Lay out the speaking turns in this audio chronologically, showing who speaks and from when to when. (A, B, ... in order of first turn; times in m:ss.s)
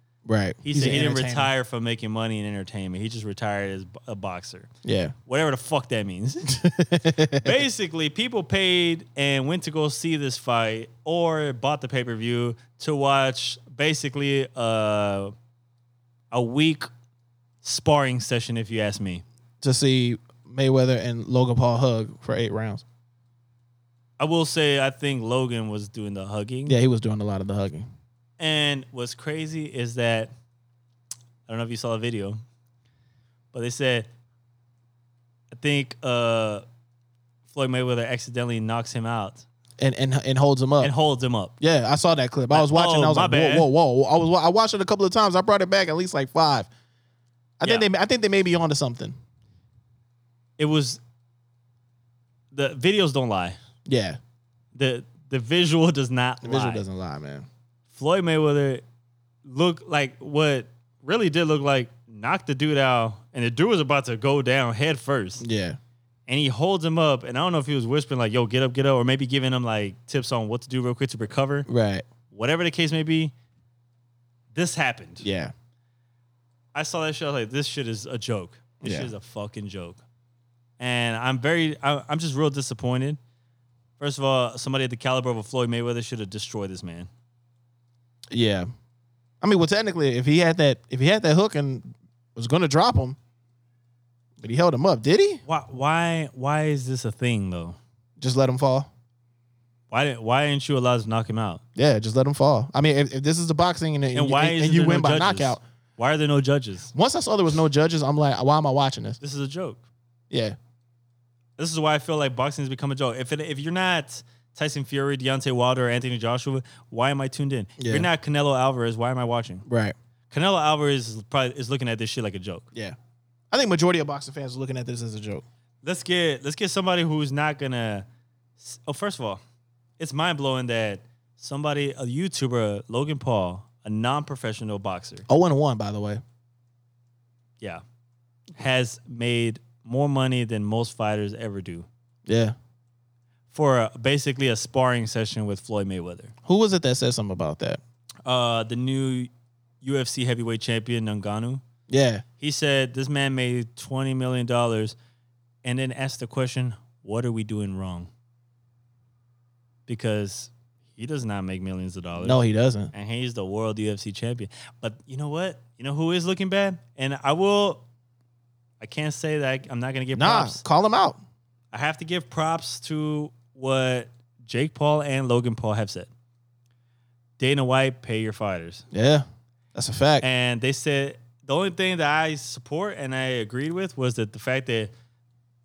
0:00.2-0:01.5 A
0:00.6-0:04.7 B
0:04.8-0:05.2 A
0:05.3-0:06.6 B
0:06.5-0:07.6 A
0:07.4-0:15.3 B
0:16.3-0:16.9 B
0:17.6-0:19.2 B
0:19.6-0:22.8 A
0:24.2-0:26.8 B
0:26.7-0:27.9 A
0:28.4-0:30.3 B
0:31.5-0:32.4 B
0:33.5-0:34.1 B
0:35.5-0:36.6 B
0:37.5-0:39.4 B
0:39.8-0:40.9 A
0:40.8-0:41.5 B
0:41.6-0:46.7 A
0:42.5-0:43.7 B
0:47.6-0:49.2 A
0:47.6-0:47.9 B
0:50.6-0:51.0 B
0:52.5-0:53.6 B
0:53.9-0:54.2 A
0:54.8-0:56.8 B
0:56.4-0:57.5 A
0:57.9-0:58.8 B
0:59.4-1:05.4 B
1:05.4-1:05.8 A
1:06.3-1:11.7 B
1:11.7-1:12.1 A
1:12.3-1:13.3 B
1:14.5-1:15.3 B
1:15.2-1:15.5 A
1:16.7-1:20.0 B
1:18.8-1:19.1 A
1:20.8-1:23.2 B
1:24.0-1:27.1 B
1:28.3-1:28.7 A
1:29.4-1:33.2 A
1:34.4-1:35.4 A
1:35.5-1:37.8 B
1:38.2-1:38.9 A
1:39.9-1:41.6 B
1:41.8-1:45.6 A
1:44.1-1:46.9 B
1:46.9-1:49.2 A
1:49.2-1:49.8 B
1:50.3-1:50.6 A
1:51.6-1:59.6 B
1:57.8-1:58.1 A
1:59.7-2:00.0 A
2:00.3-2:02.7 B
2:03.5-2:05.4 A
2:05.8-2:08.1 B
2:08.6-2:09.4 B
2:10.0-2:15.3 B
2:15.3-2:16.2 A
2:18.6-2:21.9 B
2:22.3-2:22.6 A
2:23.5-2:26.3 B
2:26.5-2:27.8 A
2:28.3-2:29.3 B
2:29.8-2:31.6 B
2:31.9-2:32.2 A
2:32.4-2:35.0 B
2:35.6-2:38.1 B
2:39.9-2:47.8 B
2:42.2-2:42.9 A
2:48.8-2:50.6 B
2:50.1-2:51.2 A
2:51.7-2:56.1 B
2:57.4-2:58.8 B
2:58.9-3:00.3 A
3:00.2-3:04.9 B